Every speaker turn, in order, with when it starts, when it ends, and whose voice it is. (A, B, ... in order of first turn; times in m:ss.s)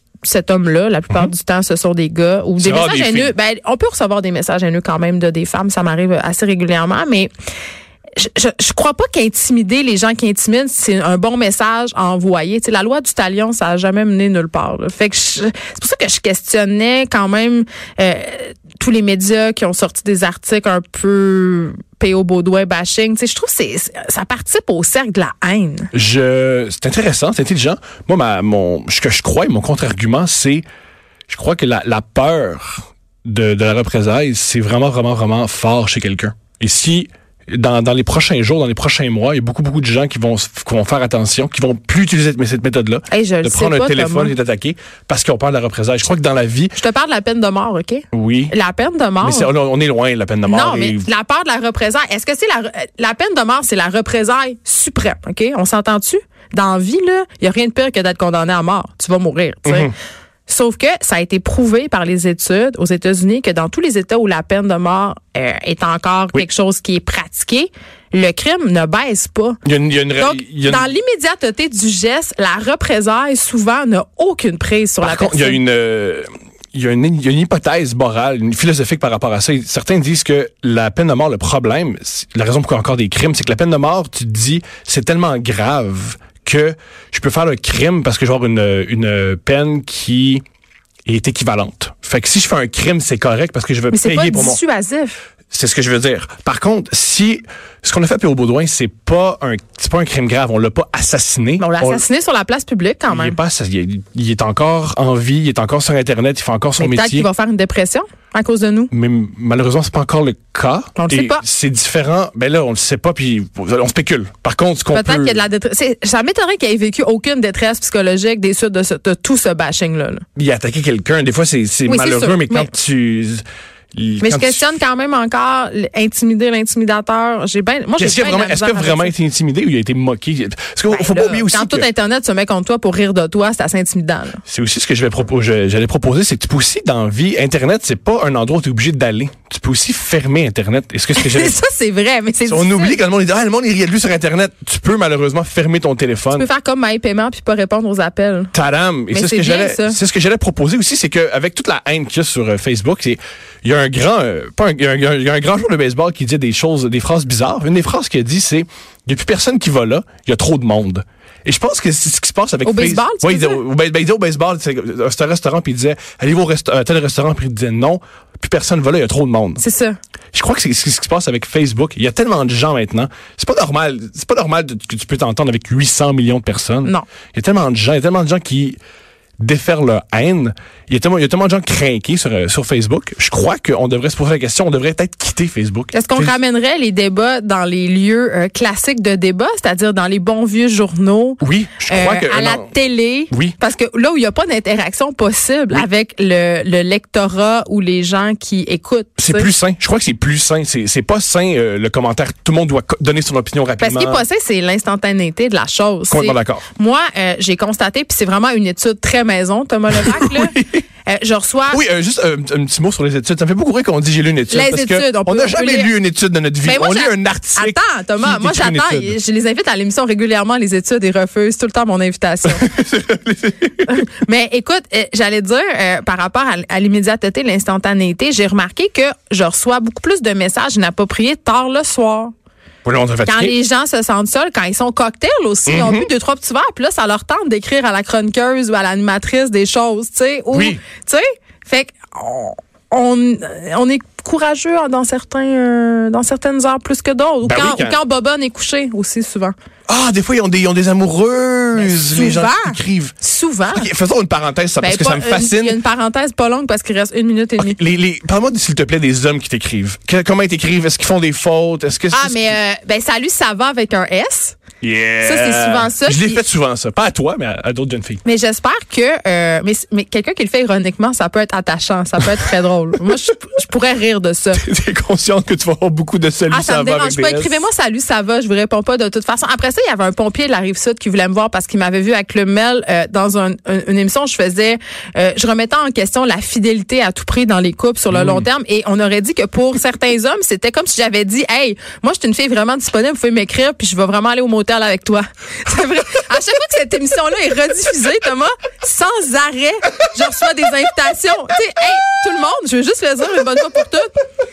0:00.2-0:07.3 A
0:02.6-0:03.3 B
0:08.1-0:25.9 A
0:25.9-0:30.6 B
0:31.3-0:46.8 B
0:43.1-0:44.3 A
0:46.7-0:49.5 A
0:48.1-0:48.5 B
0:49.2-0:51.1 B
0:50.5-0:59.9 A
0:59.6-0:59.9 B
1:00.5-1:09.6 A
1:09.6-1:10.9 B
1:10.2-1:15.6 A
1:15.0-1:30.4 B
1:31.0-1:34.6 B
1:33.9-1:35.2 A
1:35.5-1:42.0 B
1:41.6-1:43.4 A
1:43.1-1:47.3 B
1:46.8-1:48.9 A
1:48.9-1:55.4 B
1:51.0-1:51.4 A
1:54.9-2:00.2 A
2:00.4-2:04.7 B
2:01.8-2:02.7 A
2:04.2-2:09.1 A
2:08.0-2:11.9 B
2:10.9-2:14.4 A
2:14.4-2:21.6 B
2:21.1-2:23.0 A
2:22.4-2:26.5 B
2:26.3-2:28.5 A
2:28.5-2:49.6 B
2:29.1-2:30.0 A
2:42.6-2:43.6 A
2:49.6-2:50.0 A
2:50.3-2:58.8 B
2:59.4-3:06.4 B
3:05.9-3:19.5 A
3:11.4-3:12.7 B
3:19.2-3:24.2 B
3:23.8-3:31.8 A
3:26.1-3:26.6 B
3:29.9-3:30.8 B
3:31.7-3:39.2 B
3:34.5-3:35.9 A
3:36.6-3:42.7 A
3:42.4-3:44.0 B
3:43.8-3:52.3 A
3:52.8-3:53.5 B
3:53.2-4:09.5 A
3:55.7-3:56.1 B
4:00.5-4:00.8 B
4:07.4-4:08.0 B
4:09.9-4:13.1 B
4:11.7-4:13.9 A
4:13.7-4:15.8 B
4:14.8-4:17.8 A
4:17.6-4:22.6 B
4:22.1-4:24.6 A
4:24.8-4:28.2 B
4:25.2-4:26.4 A
4:28.2-4:34.6 A
4:34.5-4:37.6 B
4:36.5-5:04.0 A
4:48.1-4:48.4 B